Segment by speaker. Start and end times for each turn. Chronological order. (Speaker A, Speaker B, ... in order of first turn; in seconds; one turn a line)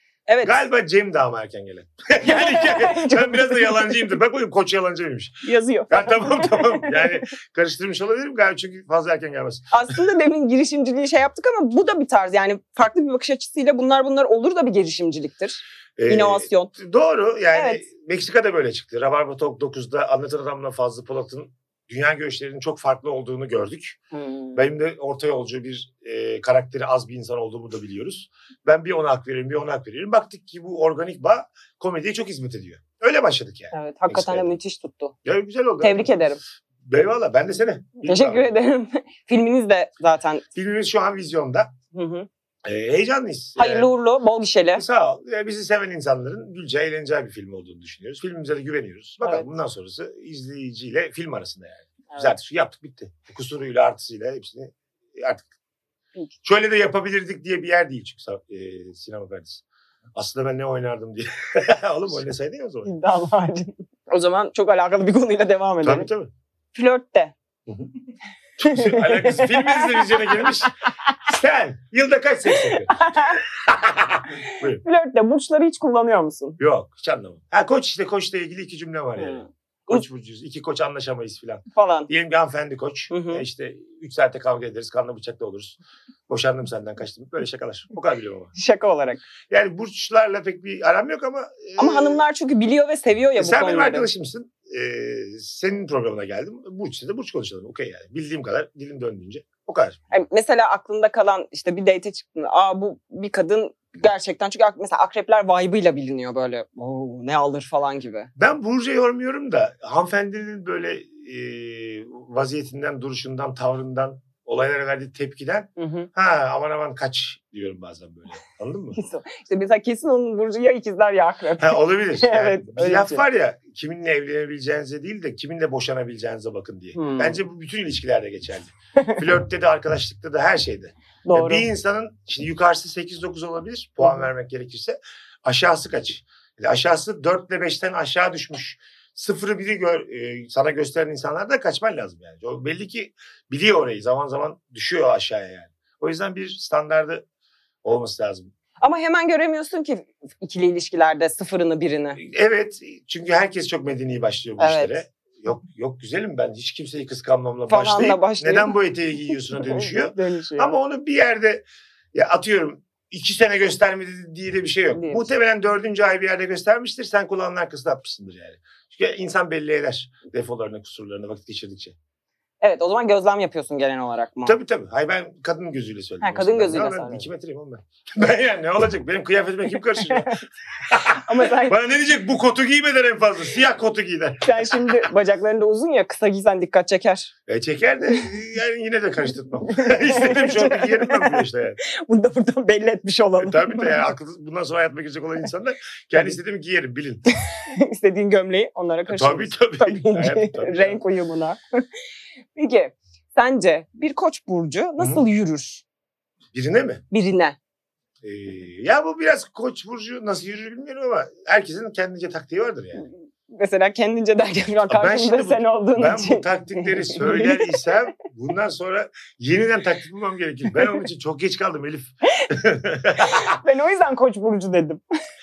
Speaker A: 0.3-0.6
Speaker B: 0.4-10.0
Speaker A: 2.2-3.9
Speaker A: 5.4-7.1
Speaker A: 9.7-16.7
Speaker B: 16.0-24.0
Speaker A: 17.5-17.8
Speaker A: 24.1-24.6
Speaker B: 24.5-34.5
Speaker A: 33.7-35.1
Speaker B: 35.2-36.1
Speaker A: 35.8-36.4
Speaker B: 36.8-38.5
Speaker A: 38.0-40.4
Speaker B: 40.5-41.7
Speaker A: 41.9-42.3
Speaker B: 42.6-43.9
Speaker A: 43.6-44.8
Speaker B: 44.7-55.5
Speaker A: 49.2-49.5
Speaker B: 56.4-59.6
Speaker B: 60.1-62.9
Speaker A: 62.8-66.1
Speaker B: 65.8-66.3
Speaker A: 66.7-67.3
Speaker B: 68.6-70.7
Speaker A: 68.6-70.5
Speaker B: 71.3-72.9
Speaker A: 72.5-73.4
Speaker B: 73.5-74.8
Speaker A: 74.8-76.6
Speaker B: 76.6-88.5
Speaker A: 79.2-80.0
Speaker A: 81.7-82.1
Speaker A: 83.1-83.4
Speaker A: 88.5-89.2
Speaker B: 89.5-92.2
Speaker A: 91.8-94.1
Speaker B: 93.4-100.0
Speaker A: 100.1-108.3
Speaker B: 108.3-119.0
Speaker A: 115.8-116.1
Speaker A: 118.9-123.2
Speaker B: 121.6-147.2
Speaker A: 126.9-127.4
Speaker A: 131.2-131.7
Speaker B: 147.8-148.5
Speaker A: 148.8-152.2
Speaker B: 152.2-171.9
Speaker A: 154.6-155.0
Speaker A: 157.7-158.7
Speaker A: 159.5-160.8
Speaker A: 164.9-165.2
Speaker A: 172.6-174.6
Speaker B: 174.4-185.1
Speaker A: 176.2-177.3
Speaker A: 180.1-180.4
Speaker A: 181.1-181.8
Speaker A: 184.4-187.3
Speaker B: 187.5-191.8
Speaker A: 189.7-194.1
Speaker B: 193.4-197.2
Speaker A: 197.5-201.6
Speaker B: 199.1-201.0
Speaker A: 202.5-205.8
Speaker B: 205.0-205.2
Speaker B: 206.5-207.0
Speaker A: 207.1-207.6
Speaker B: 208.2-213.0
Speaker A: 213.0-217.9
Speaker B: 214.9-223.6
Speaker A: 223.3-225.0